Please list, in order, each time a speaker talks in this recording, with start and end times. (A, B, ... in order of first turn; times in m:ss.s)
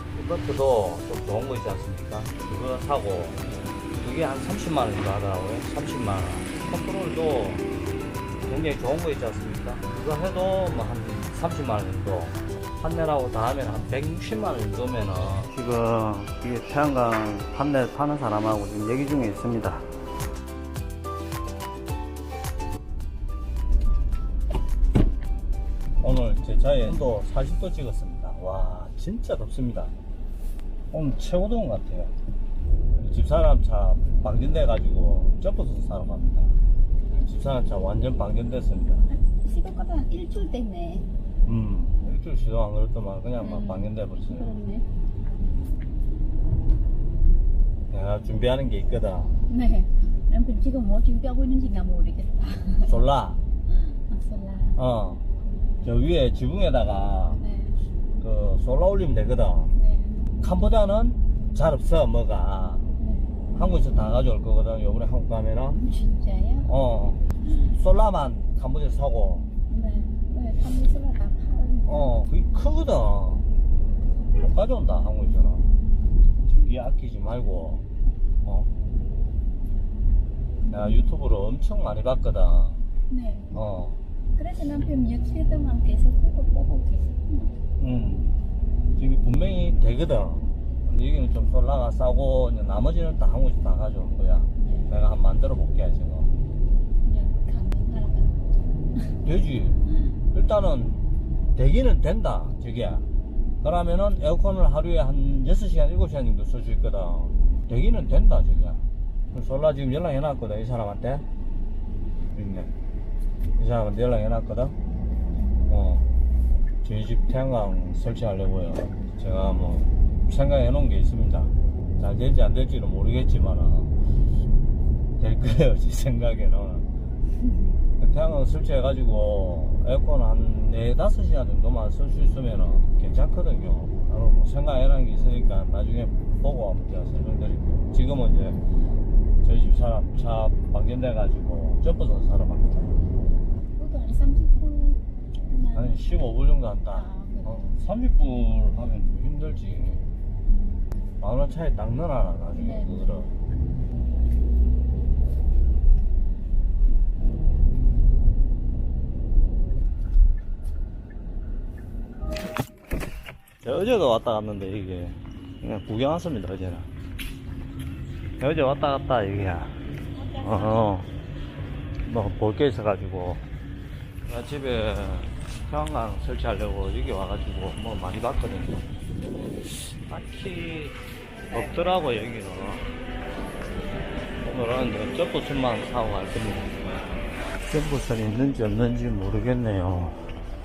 0:00.1-0:07.6 A
0:08.5-0:19.9 A
0:26.0-0:29.9 A
0:30.9-0:32.1 A
0:33.0-0:36.6 A
0:37.1-0:39.1 A
0:39.1-0:41.1 B
0:41.4-0:44.5 A
0:43.4-0:44.9 B
0:47.9-0:49.4 A
0:49.5-0:53.0 B
0:52.9-0:53.4 A
0:53.7-0:54.8 B
0:54.8-0:55.2 A
0:55.8-0:57.4 A
0:57.3-0:57.8 B
0:58.2-0:59.7 A
0:59.7-1:00.2 B
1:00.4-1:02.9 A
1:03.0-1:03.4 B
1:03.6-1:05.8 A
1:05.7-1:06.7 B
1:06.6-1:09.5 A
1:09.7-1:12.1 B
1:11.8-1:13.5 A
1:14.3-1:15.7 A
1:16.4-1:17.8 A
1:18.4-1:18.7 A
1:20.7-1:21.0 B
1:20.7-1:22.8 A
1:23.1-1:23.6 B
1:23.5-1:24.0 A
1:24.4-1:27.6 B
1:27.8-1:28.3 A
1:29.0-1:36.3 A
1:34.6-1:34.9 B
1:37.0-1:38.4 B
1:39.2-1:43.1 A
1:43.6-1:51.2 A
1:52.3-1:52.7 A
1:53.6-1:54.8 A
1:55.7-1:56.1 A
1:56.8-2:03.9 A
2:05.2-2:06.9 A
2:07.4-2:07.8 B
2:08.0-2:18.6 A
2:19.4-2:23.0 A
2:23.8-2:26.1 B
2:25.7-2:30.0 A
2:26.9-2:27.8 B
2:30.5-2:30.8 B
2:31.2-2:33.3 A
2:32.5-2:33.3 B
2:43.6-2:46.9 A
2:48.4-2:49.8 A
2:50.1-2:50.9 B
2:50.3-2:51.1 A
2:52.1-2:53.4 A
2:54.3-2:58.9 A
2:59.6-3:01.0 A
3:01.5-3:02.9 A
3:04.4-3:07.2 A
3:07.7-3:10.3 A